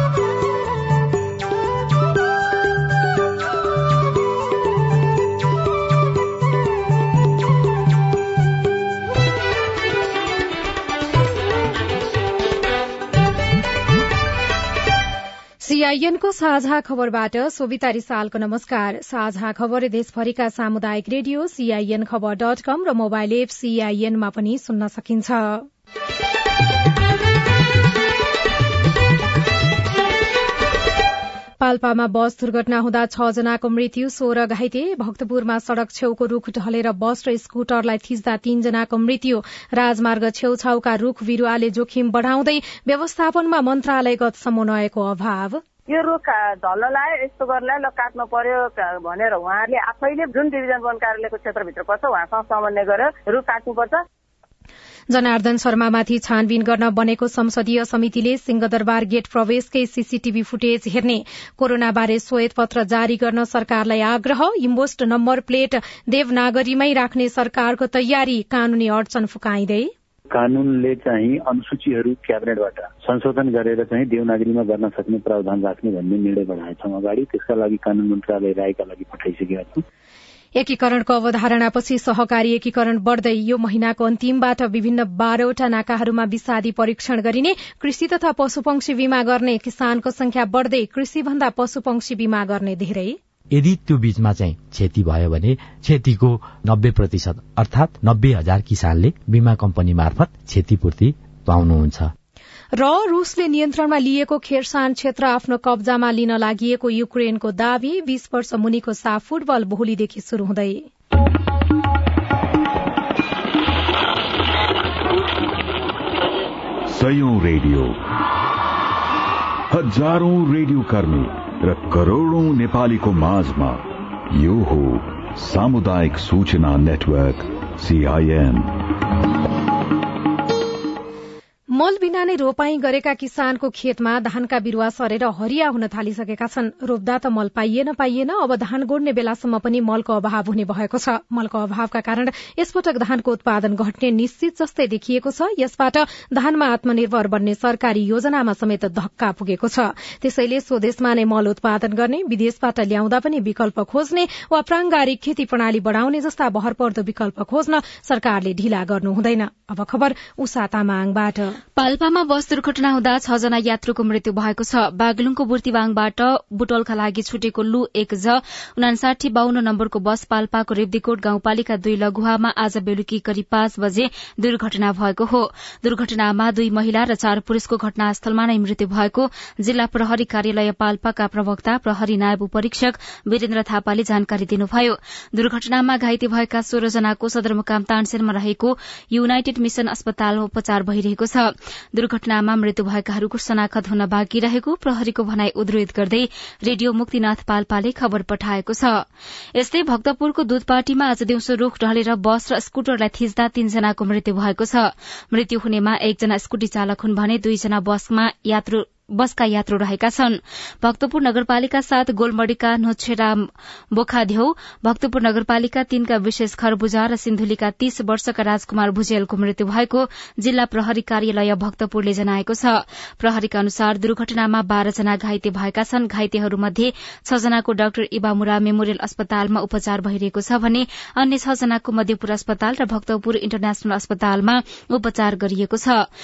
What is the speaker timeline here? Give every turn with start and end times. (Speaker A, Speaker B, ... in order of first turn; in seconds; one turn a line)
Speaker A: 15.6-25.6
Speaker A: 31.6-45.6
Speaker B: 45.9-54.0
Speaker A: 55.1-69.9
Speaker C: 70.3-79.8
Speaker A: 80.6-93.2
Speaker D: 93.5-102.1
Speaker A: 102.8-110.8
Speaker E: 116.9-118.0
Speaker E: 119.7-128.7
Speaker A: 131.7-161.6
Speaker F: 161.8-199.0
Speaker F: 199.5-213.4
Speaker F: 213.9-236.0